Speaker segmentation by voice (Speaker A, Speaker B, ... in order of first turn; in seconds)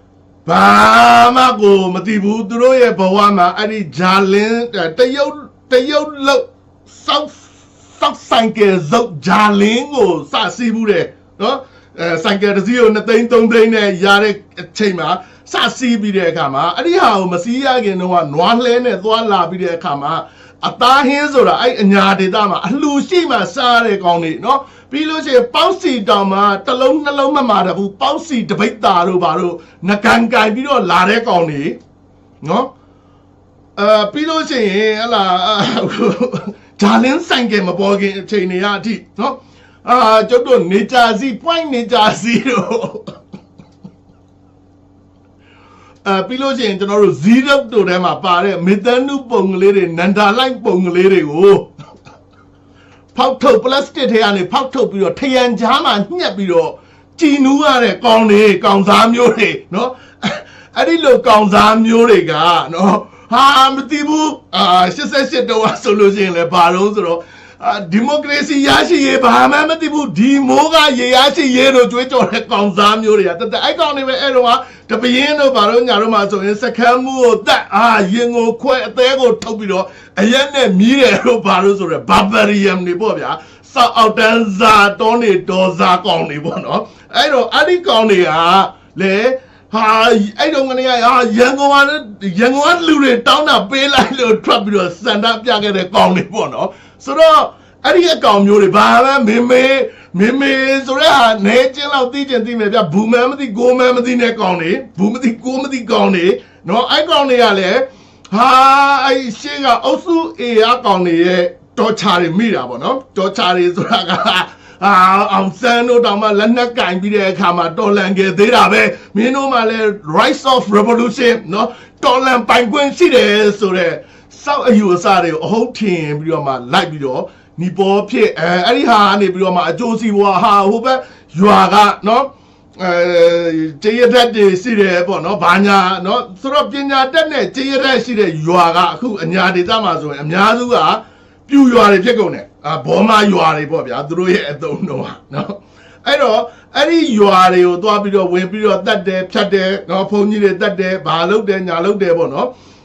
Speaker A: 0.5-31.8, 32.4-32.7, 33.8-43.1, 46.0-51.7, 53.1-152.5